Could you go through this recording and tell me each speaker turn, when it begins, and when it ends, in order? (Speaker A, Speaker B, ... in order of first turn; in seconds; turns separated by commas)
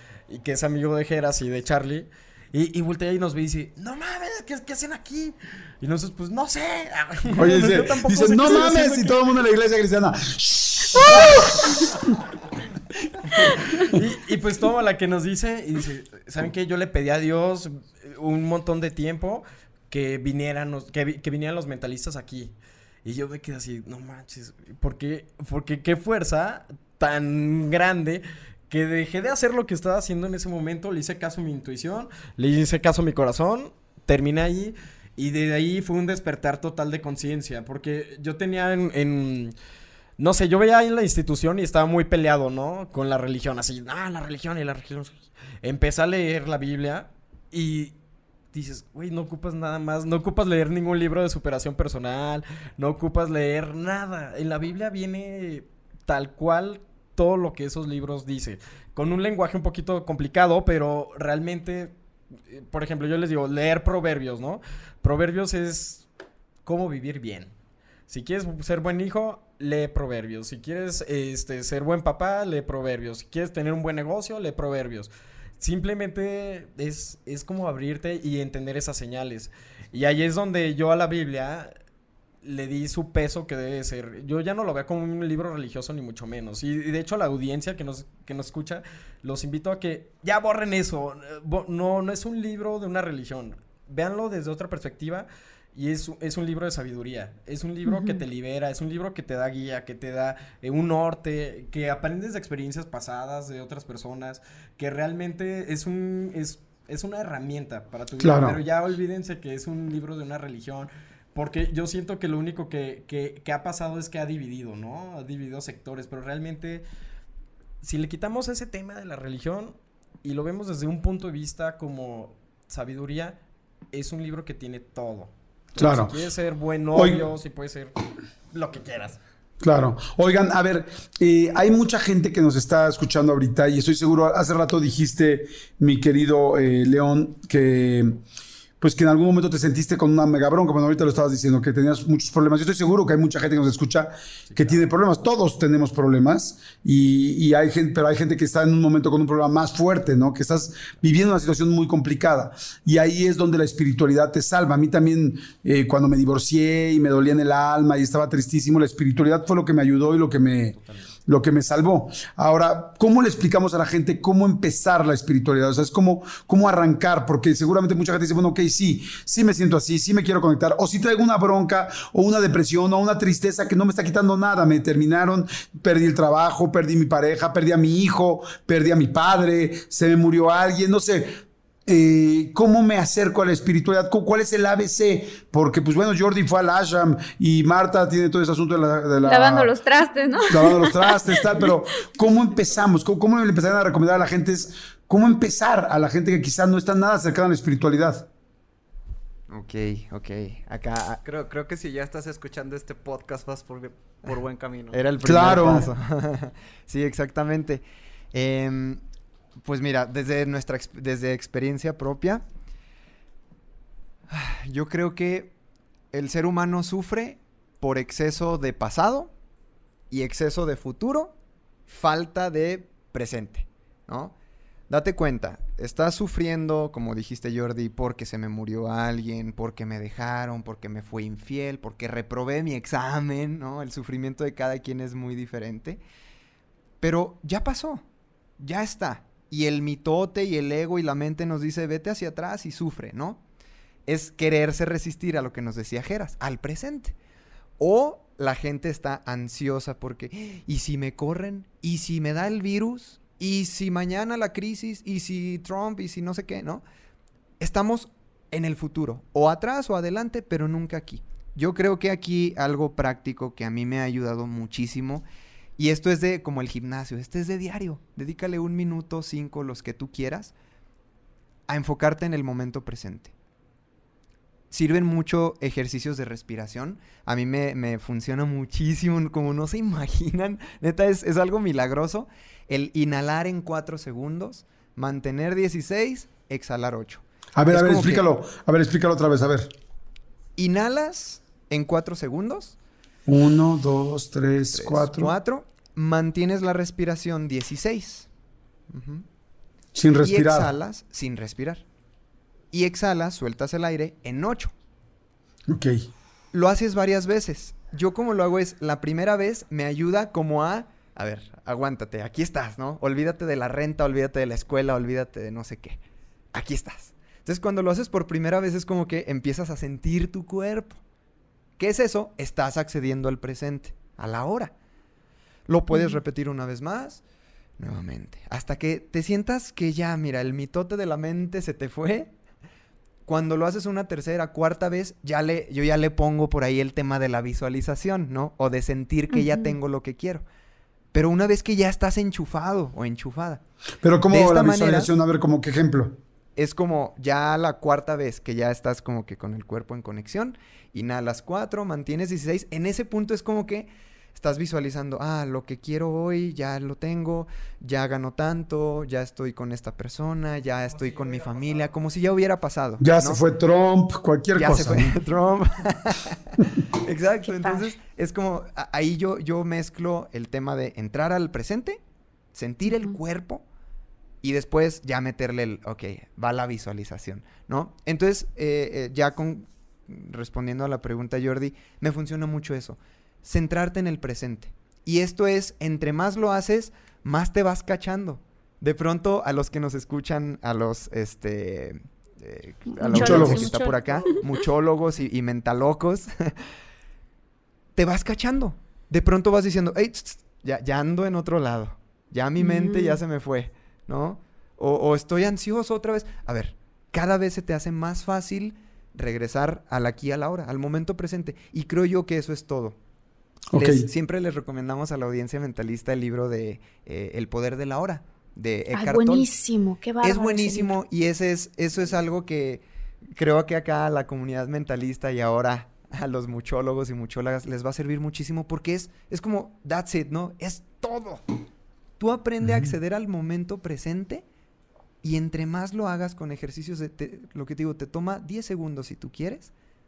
Speaker A: 0.3-9.2, Speaker B: 7.4-11.8, Speaker A: 11.0-11.8, Speaker A: 13.7-22.5, Speaker A: 23.0-39.5, Speaker A: 40.2-47.9, Speaker A: 48.5-61.9, Speaker A: 62.5-66.0, Speaker A: 66.6-67.5, Speaker A: 68.1-81.7, Speaker A: 82.4-116.8, Speaker B: 108.2-108.6, Speaker A: 117.8-123.4, Speaker A: 123.9-127.9, Speaker B: 125.8-126.1, Speaker B: 126.9-127.2, Speaker A: 128.5-129.2, Speaker B: 129.6-138.2, Speaker B: 138.8-160.8, Speaker A: 144.5-144.8, Speaker B: 161.3-189.7, Speaker C: 189.2-191.4, Speaker B: 190.5-198.3, Speaker D: 192.5-192.8, Speaker E: 199.5-201.2, Speaker D: 201.2-205.9, Speaker E: 204.9-209.0, Speaker B: 205.2-205.8, Speaker E: 209.6-212.4, Speaker E: 214.3-215.5, Speaker E: 216.1-219.3, Speaker E: 220.1-221.3, Speaker E: 221.9-224.3, Speaker E: 224.9-236.0, Speaker E: 237.0-238.1, Speaker E: 238.6-243.4, Speaker E: 244.1-247.2, Speaker E: 247.8-256.8, Speaker E: 257.6-265.2, Speaker E: 265.8-270.5, Speaker E: 271.7-273.3, Speaker E: 274.7-288.3, Speaker B: 287.6-289.7, Speaker E: 290.6-292.8, Speaker B: 293.3-295.3, Speaker E: 294.7-298.3, Speaker E: 298.9-299.2, Speaker B: 299.9-300.7, Speaker E: 300.2-301.8, Speaker E: 302.7-304.7, Speaker B: 305.7-306.1, Speaker E: 306.5-316.0, Speaker E: 316.5-321.0, Speaker E: 321.8-324.7, Speaker E: 325.7-327.2, Speaker C: 325.9-326.2, Speaker E: 327.8-332.3, Speaker E: 333.2-340.4, Speaker C: 339.3-339.8, Speaker E: 341.1-343.6, Speaker B: 344.0-346.2, Speaker E: 344.3-345.1, Speaker E: 346.6-363.4, Speaker D: 360.9-361.9, Speaker B: 363.0-365.2, Speaker E: 364.5-372.0, Speaker C: 367.4-367.9, Speaker E: 372.5-373.6, Speaker C: 372.9-373.1, Speaker E: 374.4-396.5, Speaker C: 392.9-394.4, Speaker B: 393.1-393.7, Speaker E: 397.9-413.0, Speaker C: 402.6-403.2, Speaker B: 413.7-414.1, Speaker E: 413.7-419.5, Speaker C: 418.9-421.0, Speaker E: 420.2-431.4, Speaker E: 432.2-434.4, Speaker B: 432.6-432.9, Speaker E: 435.2-439.7